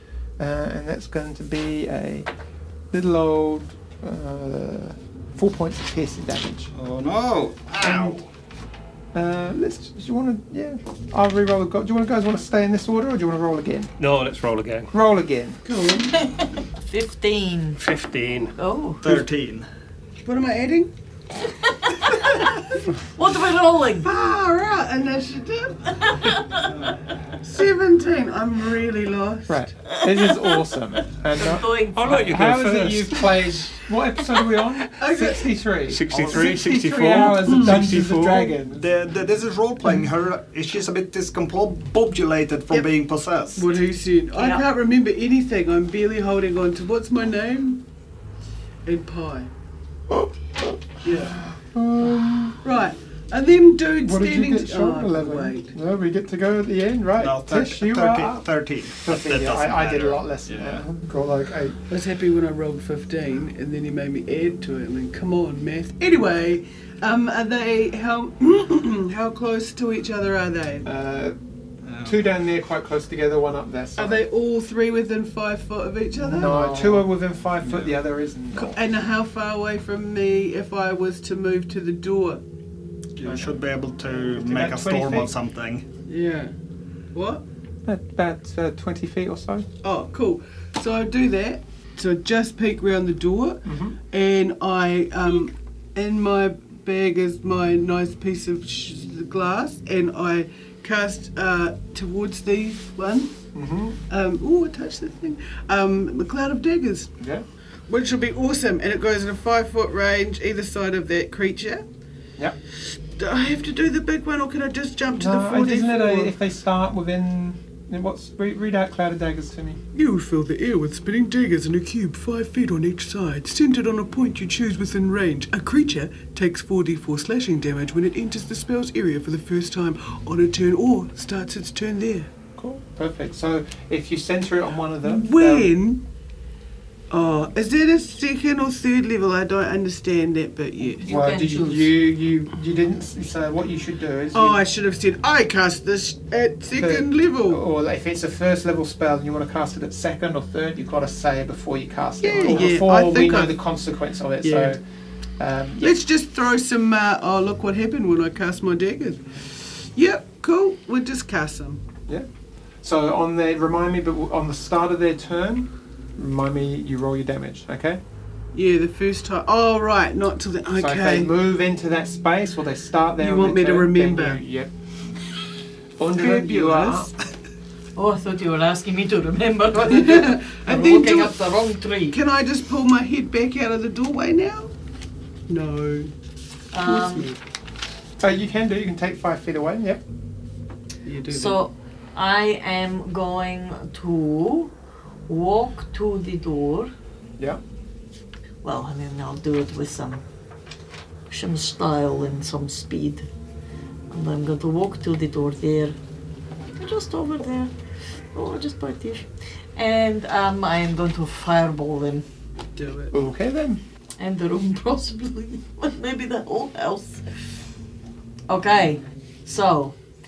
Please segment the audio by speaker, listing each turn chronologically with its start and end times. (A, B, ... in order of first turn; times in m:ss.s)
0:00.4-0:02.3 A
0:02.9-0:06.7 A
0:06.7-0:08.3 B
0:07.8-0:08.2 A
0:09.1-0:13.9 A
0:14.0-0:14.9 C
0:14.9-0:15.6 A
0:15.6-0:16.2 D
0:16.1-0:17.8 E
0:17.8-0:18.5 C
0:18.5-0:19.0 E
0:19.0-0:19.7 B
0:20.2-0:20.9 D
0:21.6-0:22.4 E
0:22.0-0:22.6 D
0:23.1-0:24.1 E
0:24.0-0:26.5 D
0:26.1-0:26.6 E
0:26.6-0:27.1 B
0:27.4-0:29.6 D
0:29.5-0:38.8 A
0:31.3-0:32.4 E
0:31.9-0:33.6 C
0:35.0-0:35.6 D
0:35.9-0:38.5 C
0:36.1-0:36.5 B
0:37.4-0:37.8 D
0:38.7-0:43.7 B
0:43.6-0:47.8 D
0:44.4-0:44.6 E
0:48.8-0:49.5 D
0:50.1-0:52.6 A
0:51.0-0:51.4 B
0:52.6-0:55.7 D
0:54.0-1:01.8 A
0:57.2-1:00.8 B
1:01.9-1:10.8 D
1:10.8-1:11.4 A
1:11.8-1:12.1 B
1:12.0-1:14.2 A
1:14.0-1:17.0 D
1:16.2-1:18.8 A
1:18.6-1:22.4 D
1:23.2-1:25.8 B
1:23.2-1:23.6 A
1:24.1-1:25.3 A
1:26.1-1:26.5 D
1:27.1-1:27.4 D
1:27.8-1:29.7 A
1:29.8-1:43.4 D
1:33.6-1:34.0 A
1:43.5-1:44.0 A
1:44.1-1:47.2 D
1:47.9-1:51.8 D
1:53.1-1:56.3 D
1:55.2-1:59.8 A
1:59.9-2:12.3 D
2:12.6-2:15.7 A
2:15.0-2:16.0 D
2:17.1-2:21.1 D
2:21.0-2:21.9 E
2:21.0-2:24.6 A
2:24.3-2:27.6 D
2:26.8-2:34.8 A
2:32.2-2:33.6 D
2:34.4-2:34.8 D
2:35.4-2:35.9 A
2:35.8-2:41.8 D
2:42.8-2:48.0 A
2:48.5-2:51.3 D
2:50.8-2:54.7 A
2:53.2-2:54.4 D
2:56.0-2:57.1 A
2:56.1-2:57.1 D
2:58.0-3:02.2 E
2:59.8-3:01.4 D
3:02.1-3:04.7 D
3:05.5-3:06.1 D
3:06.7-3:07.3 E
3:06.8-3:07.4 D
3:08.2-3:10.0 A
3:11.0-3:11.6 D
3:11.3-3:14.7 E
3:15.3-3:16.9 E
3:18.6-3:20.2 E
3:21.3-3:23.3 E
3:24.1-3:26.0 E
3:26.7-3:27.7 E
3:28.3-3:32.2 E
3:32.8-3:33.1 D
3:33.1-3:33.8 A
3:34.2-3:37.2 E
3:38.5-3:40.0 E